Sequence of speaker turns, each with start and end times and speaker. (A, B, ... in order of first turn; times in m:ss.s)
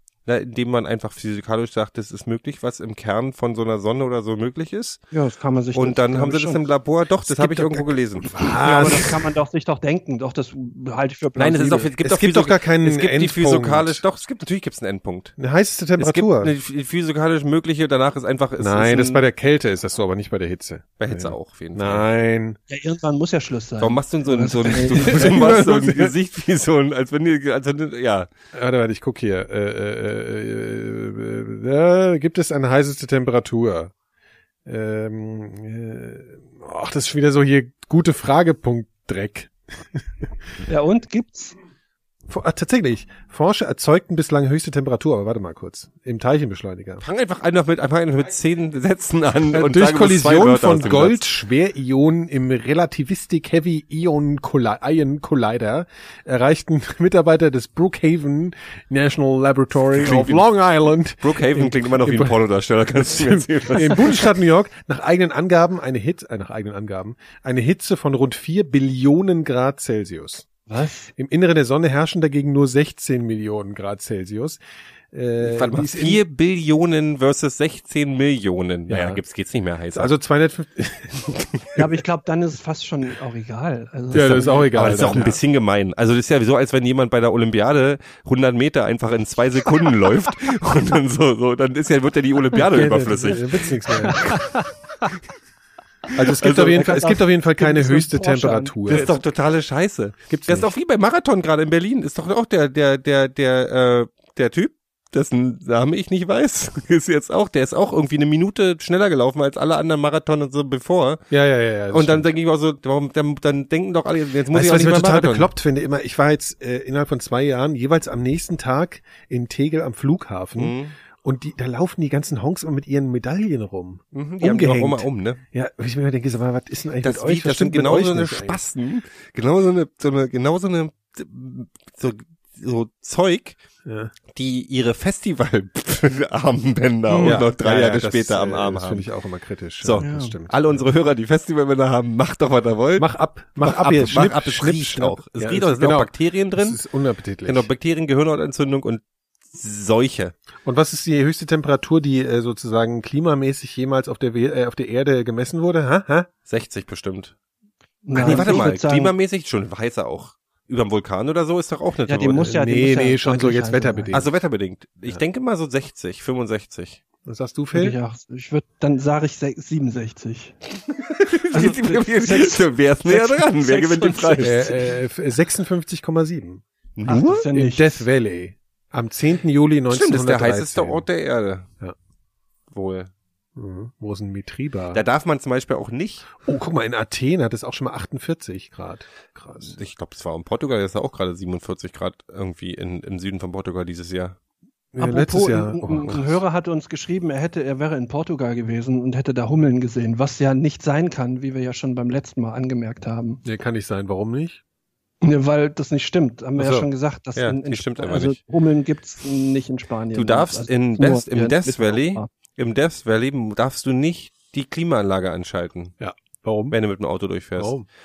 0:00.3-0:05.0 A
0:05.1-0:06.6 B
0:05.7-0:08.6 A
0:07.3-0:09.3 C
0:08.6-0:11.9 B
0:11.4-0:15.3 A
0:12.0-0:14.0 C
0:15.4-0:16.5 C
0:16.0-0:19.2 A
0:18.6-0:22.6 C
0:21.0-0:22.1 A
0:22.7-0:25.6 B
0:23.8-0:28.3 A
0:24.9-0:26.2 C
0:28.5-0:33.9 C
0:34.7-0:40.0 C
0:40.7-0:41.6 B
0:42.3-0:47.0 C
0:47.0-0:51.2 A
0:49.5-1:02.4 C
0:59.9-1:00.4 A
1:01.2-1:04.2 A
1:03.0-1:10.5 C
1:03.8-1:04.2 B
1:10.7-1:11.1 B
1:11.2-1:14.6 C
1:15.1-1:16.2 C
1:15.4-1:20.1 A
1:18.9-1:19.2 C
1:19.9-1:21.3 C
1:21.3-1:21.8 A
1:21.8-1:25.4 B
1:24.1-1:25.4 C
1:24.1-1:33.5 A
1:32.6-1:34.3 C
1:34.0-1:34.4 A
1:34.0-1:34.7 B
1:36.2-1:39.1 C
1:36.2-1:39.2 B
1:36.4-1:37.0 A
1:38.9-1:51.2 A
1:40.3-1:40.7 C
1:51.3-1:52.3 C
1:51.9-1:55.5 A
1:54.5-2:08.6 C
2:00.6-2:00.9 A
2:04.1-2:05.4 A
2:07.0-2:13.6 A
2:13.8-2:14.1 C
2:14.3-2:19.1 A
2:17.1-2:17.5 B
2:17.2-2:20.9 C
2:19.8-2:23.1 A
2:20.0-2:20.3 B
2:23.0-2:27.7 C
2:23.6-2:26.8 A
2:27.5-2:30.4 A
2:30.6-2:36.3 C
2:36.5-2:37.4 A
2:38.0-2:39.1 B
2:38.1-2:38.6 C
2:38.1-2:42.6 A
2:42.1-2:44.2 B
2:42.4-2:44.3 C
2:44.1-2:47.0 A
2:47.2-2:48.0 C
2:47.8-2:50.6 B
2:51.3-2:54.8 A
2:51.5-2:54.8 B
2:54.4-2:56.6 C
2:57.0-2:57.5 A
2:57.1-2:58.1 B
2:57.4-3:01.0 C
2:59.9-3:01.7 A
3:02.7-3:03.1 A
3:03.6-3:05.0 C
3:04.9-3:06.4 A
3:06.4-3:09.8 C
3:09.7-3:14.4 A
3:14.9-3:16.4 C
3:15.0-3:23.4 B
3:23.4-3:24.6 C
3:25.2-3:32.3 B
3:26.6-3:26.9 C
3:27.4-3:28.4 A
3:30.1-3:35.9 A
3:36.0-3:36.8 C
3:36.7-3:37.8 A
3:37.6-3:37.9 C